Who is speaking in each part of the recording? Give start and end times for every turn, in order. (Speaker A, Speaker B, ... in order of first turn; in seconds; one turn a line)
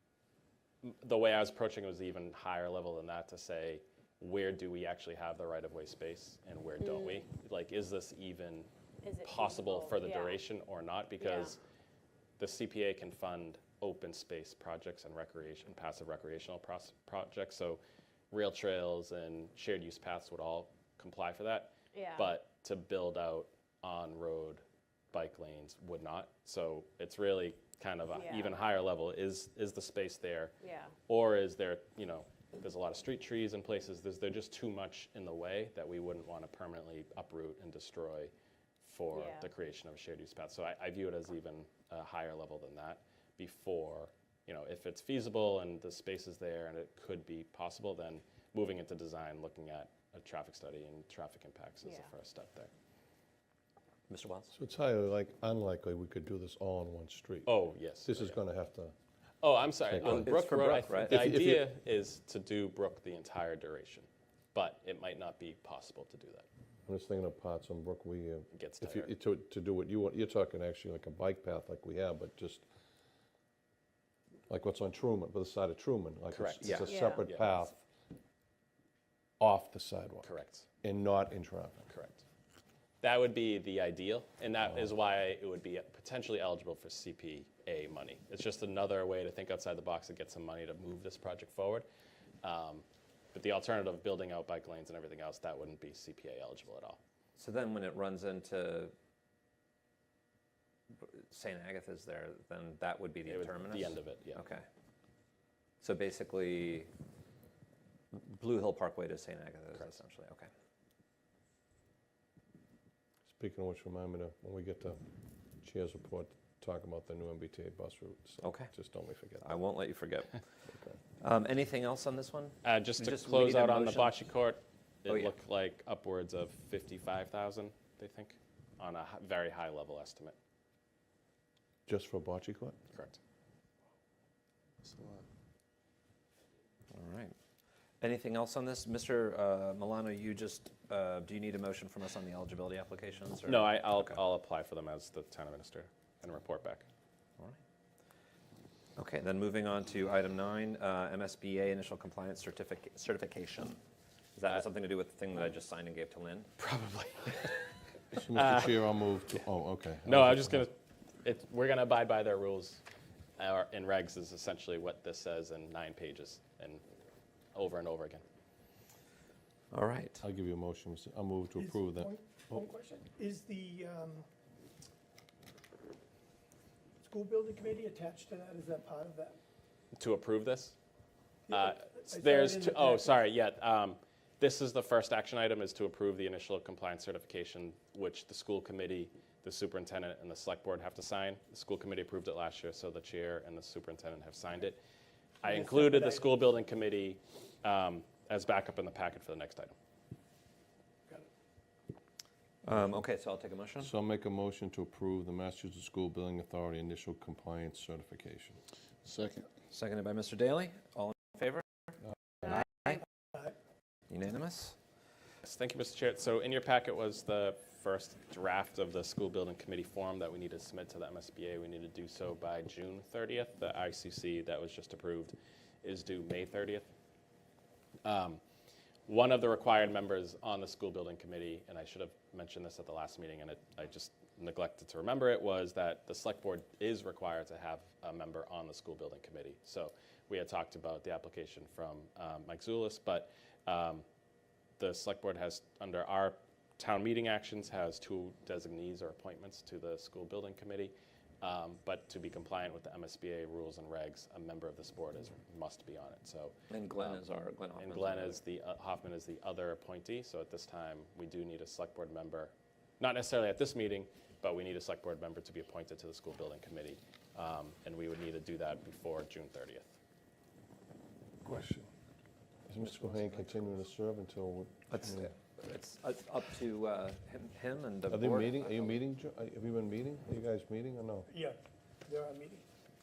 Speaker A: 0.8-8.7
Speaker B: 6.8-7.2
Speaker B: 9.0-10.4
Speaker A: 9.2-11.6
Speaker B: 11.2-11.6
Speaker A: 12.4-17.8
Speaker A: 18.3-30.5
Speaker B: 21.9-22.3
Speaker B: 28.1-28.6
Speaker B: 30.6-30.9
Speaker A: 31.1-52.7
Speaker B: 39.1-39.5
Speaker B: 51.8-52.1
Speaker C: 54.1-54.5
Speaker D: 54.5-58.9
Speaker A: 57.5-58.4
Speaker A: 59.4-66.5
Speaker D: 59.9-60.3
Speaker C: 59.9-61.3
Speaker D: 61.0-61.6
Speaker D: 66.8-72.6
Speaker A: 68.5-69.1
Speaker D: 74.5-77.8
Speaker A: 76.3-77.6
Speaker B: 76.8-77.2
Speaker D: 79.4-80.3
Speaker A: 80.2-80.7
Speaker D: 80.8-81.9
Speaker A: 81.9-82.2
Speaker A: 83.0-91.8
Speaker D: 84.6-84.9
Speaker A: 92.4-97.0
Speaker C: 97.4-98.9
Speaker C: 101.0-104.7
Speaker A: 103.2-104.4
Speaker C: 105.8-106.9
Speaker C: 108.1-110.5
Speaker D: 113.3-115.0
Speaker D: 115.6-119.6
Speaker C: 118.4-118.7
Speaker C: 119.4-120.5
Speaker D: 120.7-121.0
Speaker C: 121.2-124.2
Speaker A: 122.6-130.3
Speaker C: 125.1-125.3
Speaker D: 131.9-132.8
Speaker A: 132.9-133.2
Speaker C: 136.9-137.3
Speaker C: 138.0-144.2
Speaker A: 143.4-146.8
Speaker C: 148.9-153.8
Speaker C: 154.3-156.5
Speaker A: 156.6-157.6
Speaker D: 158.1-160.6
Speaker A: 158.3-158.8
Speaker A: 160.0-162.8
Speaker A: 163.4-166.8
Speaker A: 167.5-168.2
Speaker C: 169.7-170.2
Speaker D: 170.2-172.6
Speaker E: 171.6-174.2
Speaker E: 177.0-179.4
Speaker A: 179.9-180.7
Speaker E: 181.5-183.2
Speaker A: 181.5-194.8
Speaker A: 195.4-199.7
Speaker E: 195.5-196.2
Speaker C: 202.6-203.9
Speaker D: 202.7-203.0
Speaker D: 203.8-209.3
Speaker C: 209.7-211.9
Speaker C: 212.4-213.0
Speaker E: 212.9-213.5
Speaker C: 214.1-214.8
Speaker A: 215.4-226.9
Speaker A: 228.0-228.4
Speaker A: 229.1-244.0
Speaker A: 244.8-257.2
Speaker C: 256.7-258.4
Speaker A: 257.8-270.0
Speaker D: 271.4-271.9
Speaker D: 272.7-275.3
Speaker C: 272.8-273.6
Speaker C: 274.9-278.6
Speaker D: 278.1-281.3
Speaker E: 281.3-282.6